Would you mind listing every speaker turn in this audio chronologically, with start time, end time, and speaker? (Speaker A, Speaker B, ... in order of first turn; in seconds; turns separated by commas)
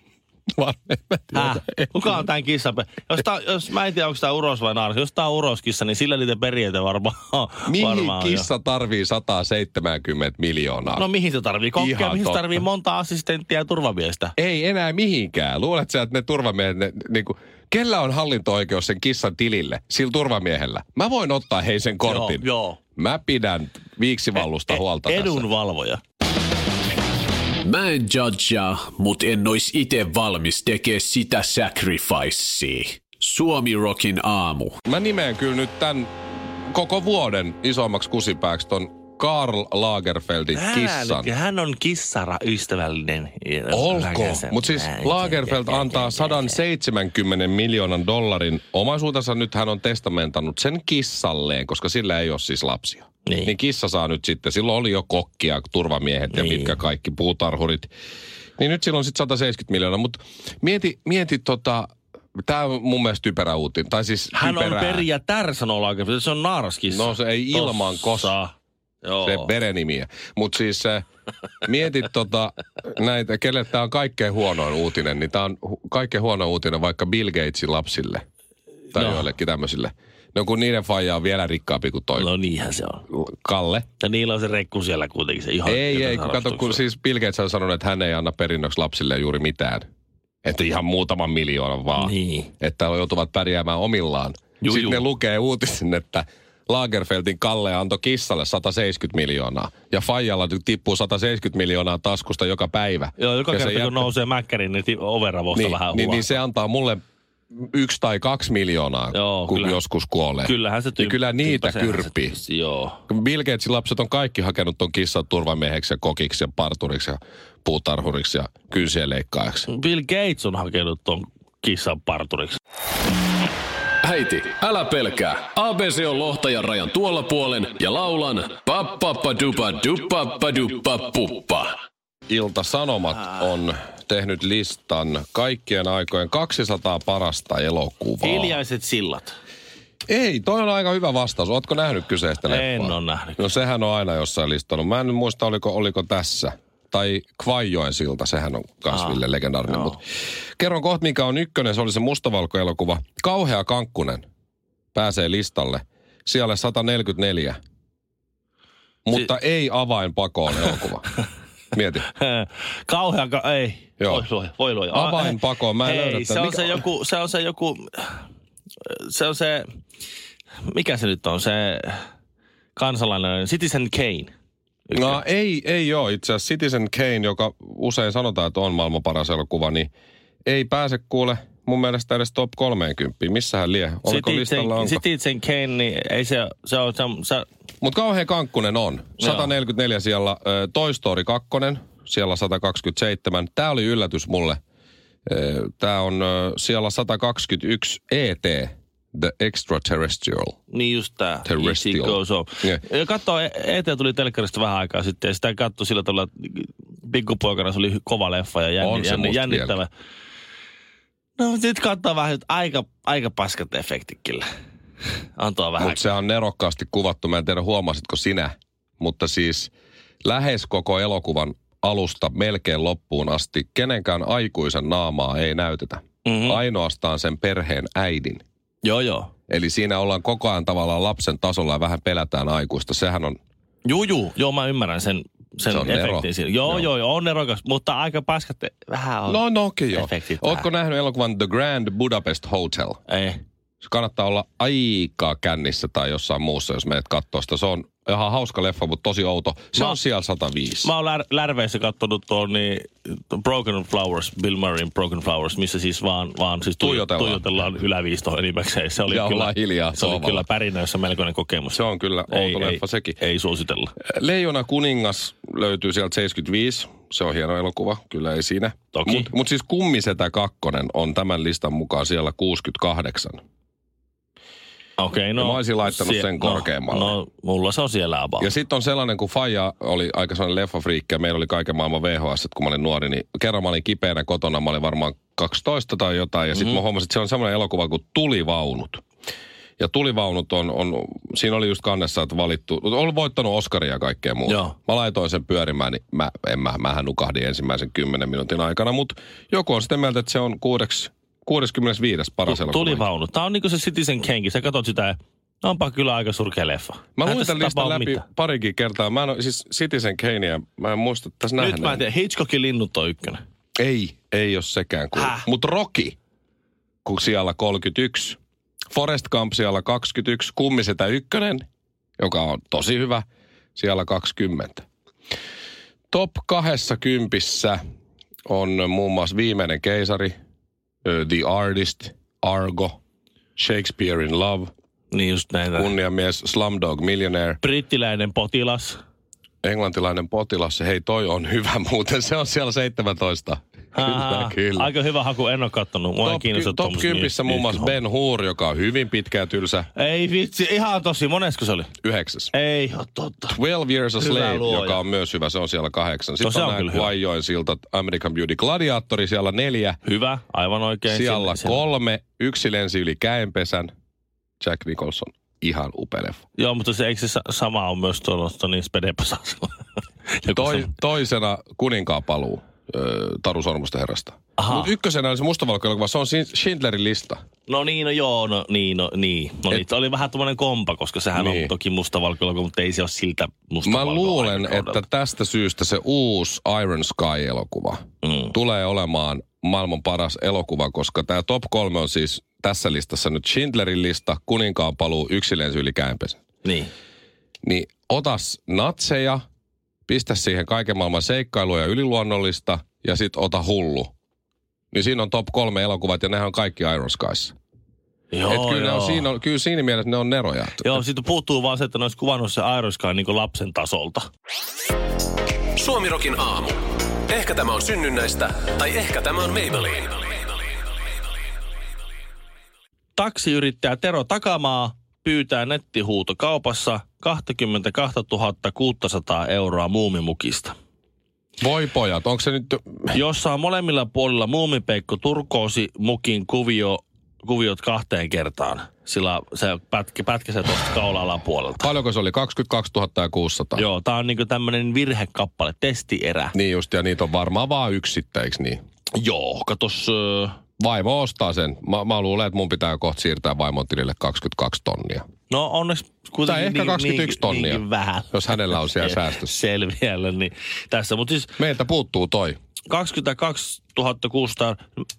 Speaker A: 0.5-2.2, Speaker B: 1.3-8.5, Speaker A: 7.7-11.1, Speaker B: 11.0-14.3, Speaker A: 11.8-12.7, Speaker A: 14.4-25.5, Speaker B: 22.1-22.8, Speaker B: 24.4-26.0, Speaker C: 27.6-34.8, Speaker A: 34.9-41.3, Speaker B: 40.5-46.6, Speaker A: 43.7-57.9, Speaker B: 53.2-53.5, Speaker B: 56.3-56.8, Speaker A: 58.6-65.1, Speaker B: 64.3-69.5, Speaker A: 66.9-68.3, Speaker A: 69.2-71.0, Speaker A: 71.6-78.2, Speaker A: 78.9-82.3, Speaker B: 78.9-79.2, Speaker B: 82.1-83.0, Speaker A: 83.1-83.9, Speaker B: 84.0-86.8, Speaker A: 85.7-89.9, Speaker A: 90.4-104.1, Speaker B: 92.0-92.5, Speaker B: 94.6-95.0, Speaker B: 103.2-106.4, Speaker A: 105.5-107.0, Speaker A: 107.6-112.4, Speaker B: 109.1-109.8, Speaker B: 110.4-113.0, Speaker A: 113.1-119.7, Speaker B: 119.7-122.6, Speaker C: 124.0-131.7, Speaker A: 132.3-138.6, Speaker B: 138.2-139.3, Speaker A: 140.1-150.0, Speaker B: 142.5-143.5, Speaker B: 148.9-150.0, Speaker A: 150.6-154.2, Speaker A: 154.9-157.6, Speaker A: 159.1-161.1, Speaker A: 161.7-162.1, Speaker B: 162.0-168.2, Speaker A: 164.0-164.2, Speaker A: 164.9-166.8, Speaker B: 168.8-169.7, Speaker B: 170.7-172.1, Speaker B: 172.8-174.3, Speaker B: 174.9-175.2, Speaker A: 174.9-179.9, Speaker A: 180.4-185.0, Speaker B: 184.1-187.4, Speaker A: 187.8-194.6, Speaker B: 189.2-189.5, Speaker A: 195.3-200.6, Speaker B: 200.7-209.9, Speaker A: 201.4-202.8, Speaker A: 208.8-209.8, Speaker B: 211.4-214.4, Speaker B: 215.4-216.0, Speaker A: 215.8-219.7, Speaker A: 220.2-228.4, Speaker B: 226.2-226.6, Speaker B: 228.8-229.3, Speaker A: 229.5-233.4, Speaker B: 233.8-240.7, Speaker A: 235.7-236.9, Speaker A: 239.3-243.0, Speaker B: 243.1-243.4, Speaker A: 243.8-250.9, Speaker B: 249.8-250.0, Speaker B: 250.8-263.9, Speaker A: 256.8-257.4, Speaker A: 259.1-260.5, Speaker A: 261.7-263.2, Speaker A: 264.0-273.4, Speaker B: 268.9-269.3, Speaker B: 275.0-278.5, Speaker A: 275.4-277.1, Speaker A: 278.4-289.0, Speaker B: 286.5-286.8, Speaker A: 289.8-303.1, Speaker B: 294.5-294.7, Speaker B: 302.5-308.2, Speaker A: 307.2-312.0, Speaker B: 311.6-313.4, Speaker A: 313.8-316.1, Speaker B: 315.1-315.4, Speaker A: 317.0-318.4, Speaker A: 318.9-321.6, Speaker A: 322.2-323.2, Speaker A: 323.8-324.9, Speaker A: 326.1-327.8, Speaker A: 328.5-330.4, Speaker A: 331.0-333.0, Speaker A: 333.6-334.7, Speaker B: 335.1-335.9, Speaker A: 335.8-337.6, Speaker B: 337.6-339.0, Speaker A: 339.6-344.9, Speaker B: 343.9-348.0, Speaker A: 346.2-349.9, Speaker B: 350.0-351.9, Speaker A: 352.0-352.5, Speaker B: 352.5-353.6, Speaker A: 353.5-360.0, Speaker B: 354.2-355.0, Speaker B: 356.4-357.1, Speaker B: 360.0-361.8, Speaker A: 361.1-363.9, Speaker A: 364.6-366.4, Speaker B: 366.6-369.7, Speaker B: 370.3-370.9, Speaker A: 370.5-377.4, Speaker B: 374.6-374.9, Speaker B: 377.7-385.0, Speaker A: 381.4-381.7, Speaker A: 383.9-388.0, Speaker B: 388.2-388.5, Speaker A: 388.5-396.4, Speaker B: 396.6-396.9, Speaker A: 397.6-399.4, Speaker A: 400.1-404.1, Speaker A: 404.9-407.5, Speaker B: 408.3-409.3, Speaker A: 408.5-411.0, Speaker B: 410.8-414.3, Speaker C: 415.8-420.4, Speaker B: 423.1-430.8, Speaker A: 431.6-433.2, Speaker B: 433.1-441.9, Speaker A: 441.8-443.9, Speaker B: 443.8-446.5, Speaker A: 446.5-448.8, Speaker B: 449.1-450.6, Speaker A: 450.8-455.2, Speaker B: 455.5-461.6, Speaker A: 456.4-459.5, Speaker A: 461.6-462.6, Speaker B: 462.9-464.8